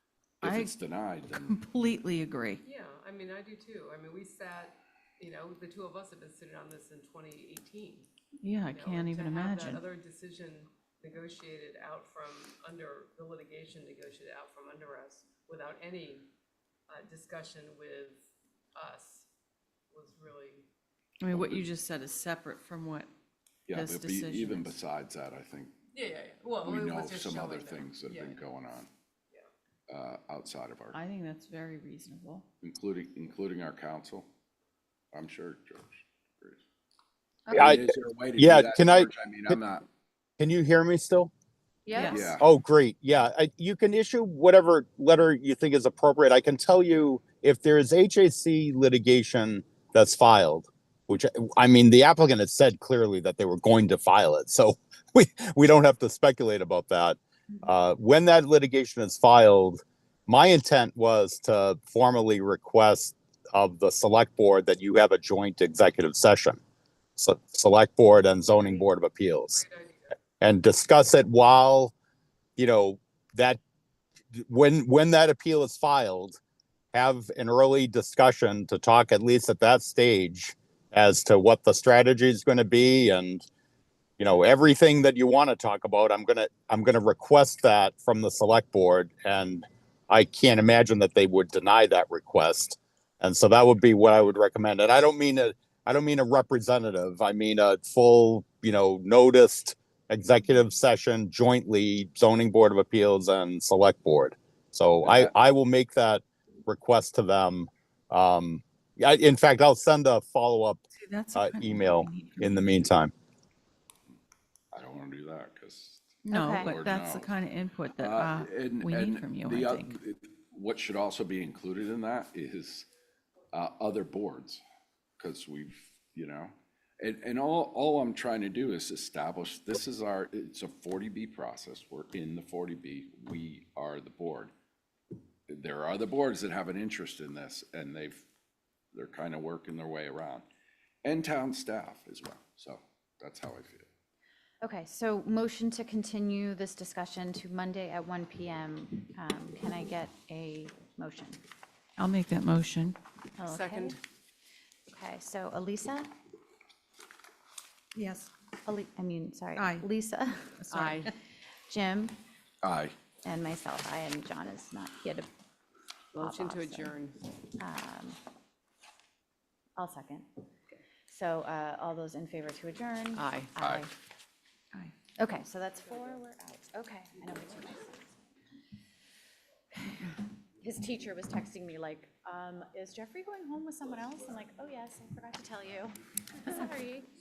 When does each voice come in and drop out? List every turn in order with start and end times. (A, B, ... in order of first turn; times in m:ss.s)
0:00.4-0:01.6 A
0:00.4-0:00.7 B
0:01.4-0:02.6 B
0:02.6-0:08.1 C
0:08.4-0:09.8 B
0:08.7-0:16.3 C
0:16.9-0:18.2 C
0:18.7-0:19.3 C
0:19.9-0:20.6 C
0:21.2-0:23.1 B
0:21.3-0:21.6 A
0:23.7-0:25.7 A
0:23.7-0:24.7 B
0:25.9-0:28.4 C
0:26.6-0:28.9 A
0:29.9-0:31.0 A
0:30.9-0:32.4 B
0:32.6-0:34.3 A
0:35.1-0:36.6 A
0:37.5-0:39.8 A
0:37.5-0:39.5 D
0:40.4-0:41.3 D
0:41.8-0:42.2 E
0:41.9-0:42.3 B
0:42.1-0:42.4 A
0:42.4-1:06.6 D
1:07.2-1:09.6 D
1:08.6-1:08.9 C
1:09.5-1:10.1 C
1:10.4-1:11.9 D
1:12.6-1:13.6 D
1:14.3-1:16.4 D
1:16.9-1:23.4 D
1:24.2-1:50.8 D
1:45.0-1:45.3 A
1:51.0-1:52.6 B
1:51.3-1:53.1 D
1:54.7-1:57.3 A
1:56.2-2:00.0 B
1:56.3-1:56.7 E
1:58.0-2:02.9 A
2:03.5-2:04.6 A
2:05.2-2:14.5 A
2:15.5-2:18.2 A
2:18.9-2:20.4 A
2:21.0-2:23.9 A
2:24.6-2:31.4 E
2:32.0-2:33.0 B
2:33.4-2:34.0 E
2:33.4-2:34.0 C
2:34.9-2:36.1 E
2:37.9-2:38.3 B
2:38.6-2:41.1 E
2:39.6-2:39.9 B
2:40.6-2:41.1 B
2:40.7-2:41.1 C
2:41.7-2:42.1 E
2:42.6-2:42.9 A
2:43.2-2:45.3 E
2:46.1-2:47.2 C
2:46.2-2:46.9 E
2:47.6-2:48.2 E
2:49.8-2:50.3 E
2:51.1-2:53.9 E
2:53.1-2:53.5 C
2:53.6-2:53.9 A
2:55.2-2:58.0 E
3:00.6-3:07.1 E